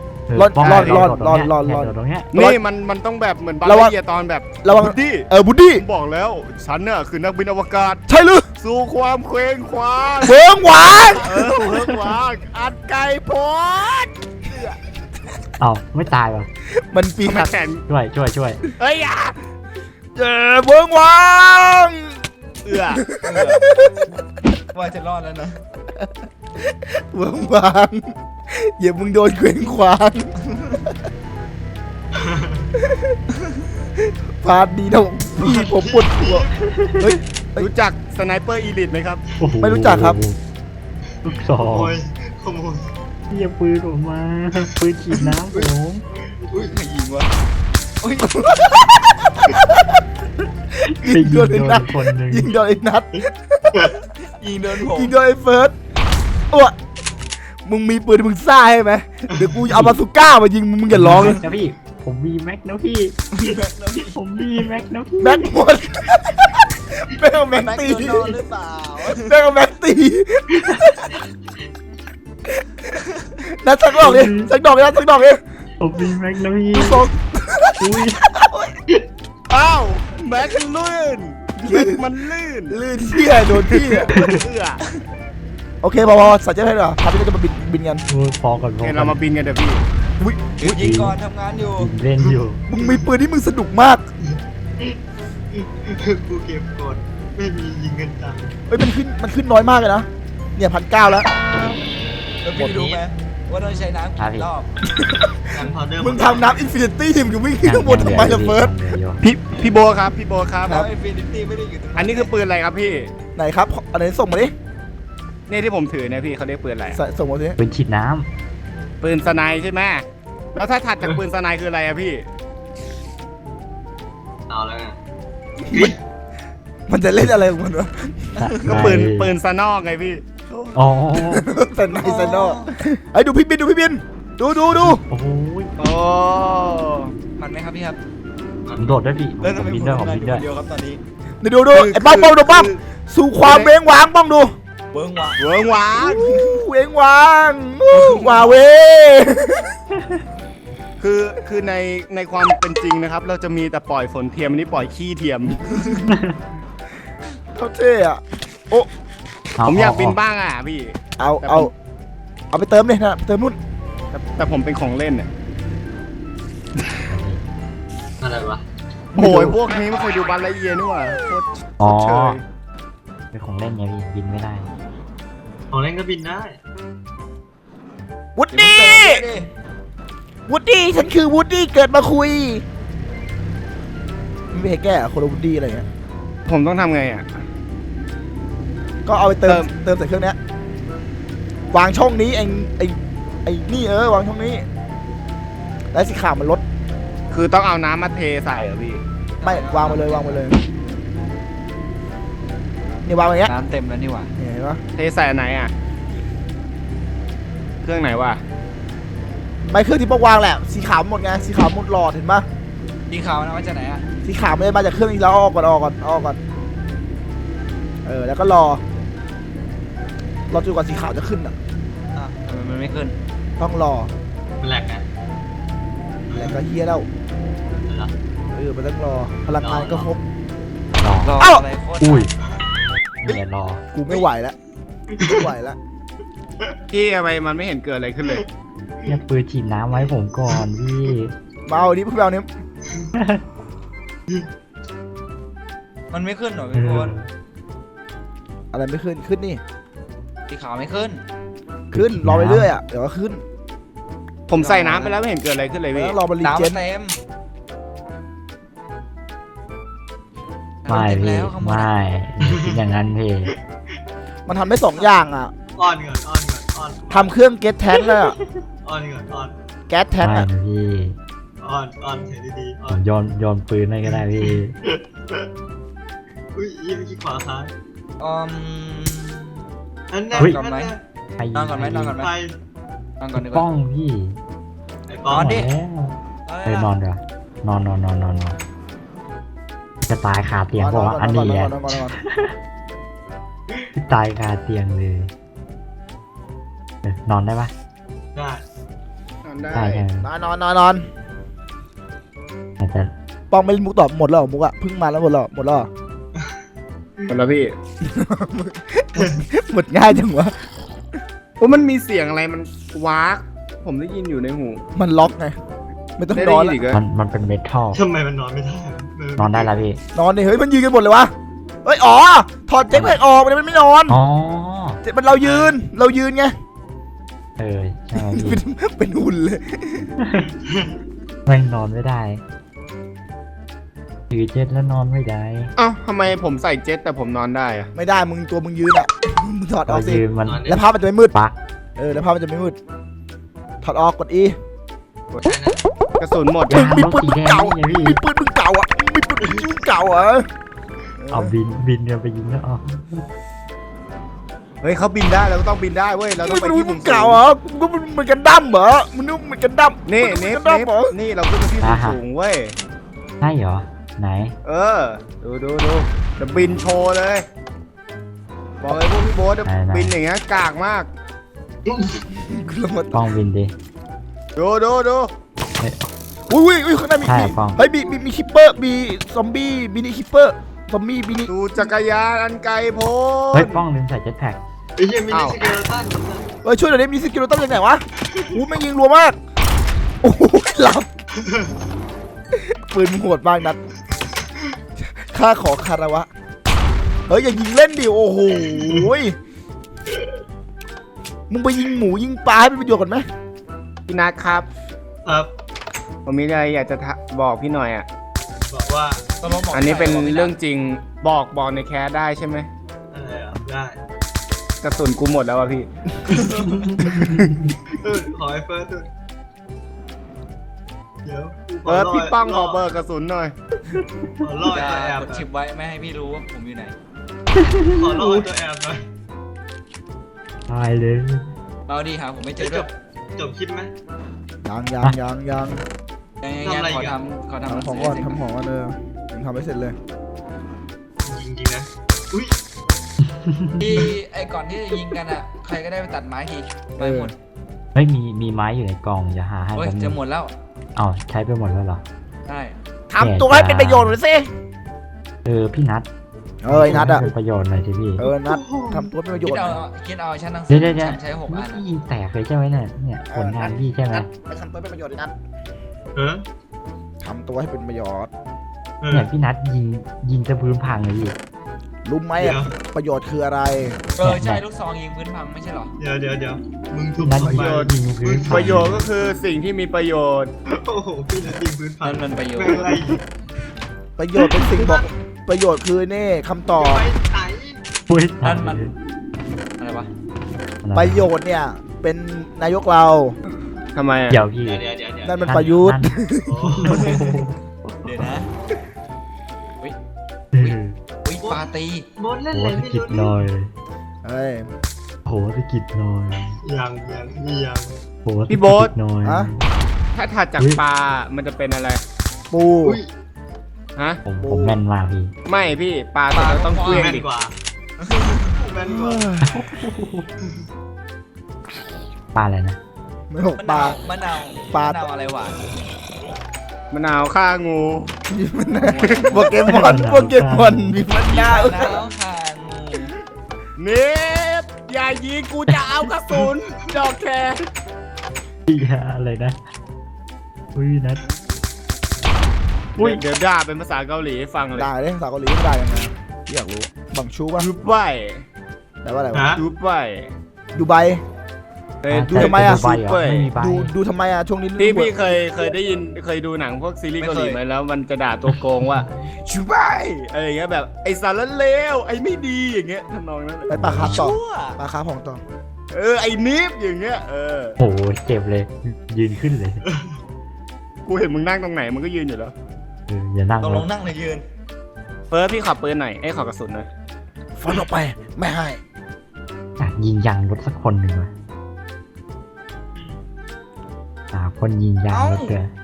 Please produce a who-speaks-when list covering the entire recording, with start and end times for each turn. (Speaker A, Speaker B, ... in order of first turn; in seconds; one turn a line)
Speaker A: 0.3-2.4
Speaker B: 0.3-2.6
Speaker C: 0.6-1.1
Speaker C: 2.3-8.0
Speaker B: 3.6-3.9
Speaker B: 4.6-5.8
Speaker B: 8.1-8.5
Speaker C: 8.6-10.4
Speaker B: 10.2-11.4
Speaker C: 11.1-14.1
Speaker A: 11.6-12.0
Speaker A: 15.6-16.5
Speaker B: 16.8-17.5
Speaker C: 17.2-17.8
Speaker A: 17.9-18.6
Speaker C: 18.8-19.4
Speaker B: 20.1-22.1
Speaker C: 22.6-23.0
Speaker D: 22.7-23.6
Speaker B: 22.9-24.1
Speaker D: 24.7-25.6
Speaker B: 26.6-30.3
Speaker E: 32.1-32.7
Speaker B: 32.8-33.2
Speaker B: 34.4-37.7
Speaker E: 35.4-36.5
Speaker A: 36.6-37.1
Speaker C: 37.6-39.2
Speaker A: 39.4-40.4
Speaker B: 39.6-40.2
Speaker A: 41.2-42.0
Speaker E: 41.2-42.9
Speaker A: 43.3-46.0
Speaker E: 45.4-46.8
Speaker D: 46.5-47.3
Speaker D: 48.0-49.5
Speaker B: 48.2-48.6
Speaker B: 49.5-49.8
Speaker A: 50.8-52.5
Speaker B: 50.8-53.9
Speaker E: 53.1-53.9
Speaker D: 54.4-55.1
Speaker B: 54.9-55.7
Speaker B: 57.6-61.4
Speaker A: 59.7-60.0
Speaker A: 60.9-63.2
Speaker D: 63.4-64.1
Speaker A: 64.0-65.6
Speaker B: 65.2-68.4
Speaker D: 67.5-69.3
Speaker B: 69.1-71.1
Speaker E: 70.5-70.8
Speaker B: 73.4-75.4
Speaker A: 74.0-74.5
Speaker A: 75.8-77.0
Speaker B: 76.7-78.7
Speaker A: 77.8-78.2
Speaker C: 79.5-82.8
Speaker B: 81.6-82.0
Speaker B: 82.7-84.1
Speaker C: 83.6-84.8
Speaker A: 84.1-84.4
Speaker B: 85.8-88.0
Speaker A: 88.1-89.2
Speaker C: 88.8-89.8
Speaker B: 90.2-90.6
Speaker D: 90.6-91.9
Speaker A: 90.6-92.6
Speaker E: 92.2-93.0
Speaker B: 92.7-94.0
Speaker E: 94.2-95.0
Speaker E: 95.5-98.5
Speaker B: 98.7-101.3
Speaker D: 102.4-104.7
Speaker B: 102.5-103.0
Speaker A: 104.2-104.5
Speaker B: 104.9-105.4
Speaker E: 105.5-106.6
Speaker B: 106.0-108.7
Speaker A: 107.6-109.2
Speaker C: 109.2-110.8
Speaker D: 110.7-112.3
Speaker C: 112.0-113.1
Speaker B: 113.3-114.5
Speaker C: 115.5-117.0
Speaker B: 116.9-117.6
Speaker A: 117.6-118.3
Speaker C: 119.0-122.2
Speaker E: 124.5-125.0
Speaker B: 125.7-125.9
Speaker B: 126.9-129.1
Speaker A: 128.3-129.3
Speaker C: 128.6-130.8
Speaker A: 130.7-131.4
Speaker B: 131.2-135.0
Speaker D: 132.0-132.7
Speaker A: 134.9-135.7
Speaker C: 135.8-137.1
Speaker D: 137.4-138.0
Speaker E: 138.7-139.0
Speaker A: 138.7-140.4
Speaker D: 139.4-141.0
Speaker B: 141.4-144.5
Speaker C: 141.7-142.7
Speaker C: 143.4-143.7
Speaker D: 144.9-145.4
Speaker C: 145.4-146.6
Speaker B: 146.0-149.7
Speaker D: 148.1-148.5
Speaker C: 151.0-155.7
Speaker A: 156.1-156.3
Speaker B: 157.5-158.9
Speaker A: 159.6-160.2
Speaker C: 159.6-161.7
Speaker B: 161.2-161.7
Speaker B: 162.5-163.6
Speaker C: 164.1-165.3
Speaker A: 167.1-167.4
Speaker E: 168.2-168.6
Speaker B: 169.1-169.6
Speaker C: 169.1-172.4
Speaker A: 171.8-172.4
Speaker A: 173.3-174.7
Speaker E: 175.7-176.6
Speaker B: 178.3-179.2
Speaker D: 178.5-179.5
Speaker B: 180.5-182.6
Speaker B: 184.5-185.9
Speaker C: 186.4-187.4
Speaker B: 189.0-190.4
Speaker B: 191.7-194.6
Speaker B: 195.9-196.6
Speaker C: 197.3-199.0
Speaker D: 199.4-200.4
Speaker B: 199.4-200.6
Speaker B: 203.0-203.5
Speaker D: 203.4-204.3
Speaker B: 204.4-204.8
Speaker C: 204.9-205.7
Speaker C: 207.8-208.4
Speaker B: 209.6-212.4
Speaker D: 213.1-214.1
Speaker B: 214.2-216.4
Speaker B: 218.0-218.8
Speaker B: 220.5-221.6
Speaker D: 222.1-223.1
Speaker B: 223.6-224.1
Speaker E: 224.6-225.1
Speaker E: 226.3-226.6
Speaker B: 226.3-227.1
Speaker E: 227.8-228.1
Speaker B: 228.5-230.2
Speaker E: 229.5-230.1
Speaker A: 231.0-231.4
Speaker D: 231.1-232.3
Speaker A: 232.0-232.3
Speaker A: 233.2-233.8
Speaker B: 233.9-234.6
Speaker E: 235.1-235.5
Speaker B: 235.2-235.8
Speaker C: 236.9-238.4
Speaker A: 239.1-241.3
Speaker E: 239.9-240.6
Speaker B: 241.7-242.5
Speaker A: 243.2-243.4
Speaker D: 246.1-247.1
Speaker A: 246.7-247.3
Speaker B: 248.7-249.6
Speaker D: 250.5-251.2
Speaker A: 251.9-252.7
Speaker B: 251.9-253.4
Speaker C: 254.5-256.2
Speaker D: 254.6-255.2
Speaker B: 255.9-256.8
Speaker D: 256.4-257.2
Speaker D: 260.8-261.9
Speaker A: 260.9-263.5
Speaker E: 262.4-262.8
Speaker B: 264.5-265.5
Speaker E: 265.8-267.3
Speaker B: 267.1-268.3
Speaker E: 267.9-269.6
Speaker B: 269.9-270.5
Speaker A: 270.2-271.1
Speaker E: 271.6-273.0
Speaker A: 272.9-274.7
Speaker E: 274.0-275.5
Speaker E: 276.5-277.7
Speaker D: 278.2-279.6
Speaker E: 280.1-281.0
Speaker D: 280.3-281.0
Speaker A: 281.4-282.2
Speaker D: 281.5-282.3
Speaker E: 282.1-282.5
Speaker D: 283.2-283.6
Speaker A: 283.4-284.4
Speaker E: 285.1-285.6
Speaker A: 285.3-288.6
Speaker D: 285.3-285.7
Speaker D: 286.5-286.9
Speaker A: 290.1-292.5
Speaker B: 290.8-292.1
Speaker A: 293.9-295.3
Speaker A: 297.0-297.7
Speaker E: 298.3-298.6
Speaker C: 299.4-300.0
Speaker A: 299.7-300.3
Speaker B: 300.2-301.1
Speaker A: 302.8-303.1
Speaker B: 303.5-305.9
Speaker C: 307.3-307.7
Speaker B: 308.0-310.6
Speaker E: 309.1-309.4
Speaker C: 311.6-314.8
Speaker B: 314.9-315.6
Speaker B: 316.2-316.8
Speaker C: 316.3-317.0
Speaker A: 316.9-318.0
Speaker E: 317.9-319.7
Speaker A: 319.4-320.0
Speaker B: 320.1-321.3
Speaker B: 321.8-324.2
Speaker A: 324.1-325.0
Speaker B: 325.0-326.5
Speaker E: 325.4-325.8
Speaker A: 327.6-328.6
Speaker B: 328.1-330.1
Speaker A: 330.2-330.5
Speaker E: 330.4-331.0
Speaker A: 331.4-332.4
Speaker A: 334.3-335.7
Speaker C: 335.8-337.9
Speaker B: 337.9-341.3
Speaker A: 339.9-340.7
Speaker E: 340.4-340.8
Speaker B: 341.9-342.8
Speaker B: 343.8-344.6
Speaker E: 345.4-345.8
Speaker C: 346.2-346.7
Speaker A: 346.7-348.2
Speaker B: 346.7-350.4
Speaker B: 351.2-351.5
Speaker A: 351.3-353.2
Speaker C: 354.8-357.4
Speaker B: 356.4-361.1
Speaker C: 360.1-362.7
Speaker A: 361.8-362.2
Speaker A: 363.4-364.5
Speaker C: 364.6-367.4
Speaker C: 368.8-371.1
Speaker A: 369.6-370.1
Speaker E: 371.9-372.2
Speaker B: 372.3-373.2
Speaker A: 373.1-373.7
Speaker C: 374.6-375.3
Speaker A: 375.8-376.1
Speaker B: 376.5-381.5
Speaker A: 377.2-377.8
Speaker C: 381.5-383.8
Speaker A: 383.5-384.6
Speaker E: 385.0-386.5
Speaker C: 385.3-385.6
Speaker B: 386.6-389.4
Speaker B: 390.2-391.1
Speaker E: 391.3-391.7
Speaker B: 392.5-393.8
Speaker B: 395.0-396.3
Speaker B: 397.3-399.4
Speaker E: 398.6-399.1
Speaker B: 401.5-403.2
Speaker C: 404.1-404.7
Speaker E: 405.2-405.5
Speaker C: 406.2-408.1
Speaker E: 408.7-409.3
Speaker D: 409.4-410.6
Speaker C: 409.7-412.7
Speaker E: 413.1-413.9
Speaker C: 414.8-415.9
Speaker E: 416.3-416.7
Speaker D: 416.4-416.9
Speaker A: 416.6-417.7
Speaker C: 417.0-417.6
Speaker E: 418.0-419.1
Speaker E: 421.2-422.8
Speaker C: 421.9-423.5
Speaker A: 423.9-424.2
Speaker E: 424.4-425.4
Speaker D: 424.6-426.9
Speaker A: 427.6-428.5
Speaker E: 427.9-429.0
Speaker A: 430.7-431.5
Speaker D: 431.9-432.9
Speaker E: 432.6-433.9
Speaker B: 434.6-435.8
Speaker D: 436.4-438.4
Speaker E: 436.6-437.2
Speaker B: 437.7-439.9
Speaker E: 441.2-442.5
Speaker A: 443.2-444.1
Speaker D: 443.8-447.3
Speaker B: 447.0-447.3
Speaker A: 447.9-450.2
Speaker D: 449.7-450.5
Speaker A: 450.9-452.0
Speaker D: 452.5-452.8
Speaker B: 453.1-454.5
Speaker A: 453.2-454.2
Speaker A: 455.4-456.1
Speaker B: 456.6-457.3
Speaker A: 456.7-458.2
Speaker B: 458.2-459.8
Speaker E: 458.2-459.1
Speaker D: 459.3-461.8
Speaker A: 460.7-464.3
Speaker B: 463.3-465.3
Speaker E: 466.1-466.4
Speaker B: 467.2-468.3
Speaker E: 469.0-469.3
Speaker A: 469.1-471.3
Speaker B: 472.0-474.0
Speaker E: 472.4-472.7
Speaker D: 474.1-475.9
Speaker A: 474.2-474.6
Speaker E: 476.0-478.8
Speaker A: 477.2-479.1
Speaker C: 477.5-477.9
Speaker C: 478.5-480.5
Speaker E: 480.7-483.2
Speaker D: 482.0-482.9
Speaker B: 484.2-487.1
Speaker E: 484.6-485.1
Speaker E: 486.8-487.8
Speaker A: 488.1-488.9
Speaker D: 488.4-488.9
Speaker D: 489.8-490.1
Speaker A: 490.8-491.3
Speaker B: 490.9-493.3
Speaker C: 493.9-494.4
Speaker A: 494.3-494.9
Speaker E: 494.6-495.8
Speaker B: 495.2-496.6
Speaker A: 495.4-497.6
Speaker E: 496.4-497.2
Speaker D: 496.9-497.4
Speaker D: 498.0-498.5
Speaker A: 500.5-501.0
Speaker D: 500.6-502.1
Speaker E: 501.4-503.5
Speaker A: 502.5-503.7
Speaker B: 504.2-504.7
Speaker A: 505.2-506.6
Speaker E: 506.6-507.9
Speaker A: 508.2-509.6
Speaker C: 508.5-508.9
Speaker B: 509.2-509.5
Speaker C: 510.1-512.0
Speaker B: 512.5-513.0
Speaker E: 512.8-513.1
Speaker C: 514.0-514.2
Speaker A: 514.2-515.3
Speaker B: 514.4-514.8
Speaker C: 515.5-517.3
Speaker D: 516.3-517.2
Speaker E: 516.9-517.5
Speaker D: 518.0-518.6
Speaker E: 518.5-519.3
Speaker B: 518.9-519.7
Speaker A: 519.4-520.3
Speaker A: 522.3-522.8
Speaker B: 523.3-524.0
Speaker D: 523.6-525.6
Speaker B: 524.7-525.0
Speaker C: 526.9-528.1
Speaker B: 528.3-532.0
Speaker D: 528.8-529.5
Speaker C: 529.0-529.9
Speaker A: 529.6-531.0
Speaker D: 531.2-533.1
Speaker C: 533.8-537.6
Speaker A: 538.7-539.6
Speaker A: 540.7-541.2
Speaker C: 543.0-544.9
Speaker A: 543.0-543.2
Speaker B: 544.7-547.7
Speaker C: 547.6-548.4
Speaker B: 549.0-549.5
Speaker E: 549.3-549.6
Speaker C: 549.5-550.3
Speaker B: 550.7-551.2
Speaker C: 552.0-553.5
Speaker A: 552.1-553.9
Speaker B: 552.3-555.3
Speaker C: 554.8-563.7
Speaker D: 557.2-557.6
Speaker B: 563.7-565.4
Speaker A: 563.7-564.2
Speaker D: 564.0-564.8
Speaker C: 565.9-567.8
Speaker A: 567.8-569.8
Speaker C: 571.0-572.5
Speaker A: 573.1-573.9
Speaker D: 573.6-574.4
Speaker C: 575.3-576.9
Speaker B: 577.6-578.8
Speaker A: 579.8-581.3
Speaker A: 584.3-585.7
Speaker D: 585.1-585.6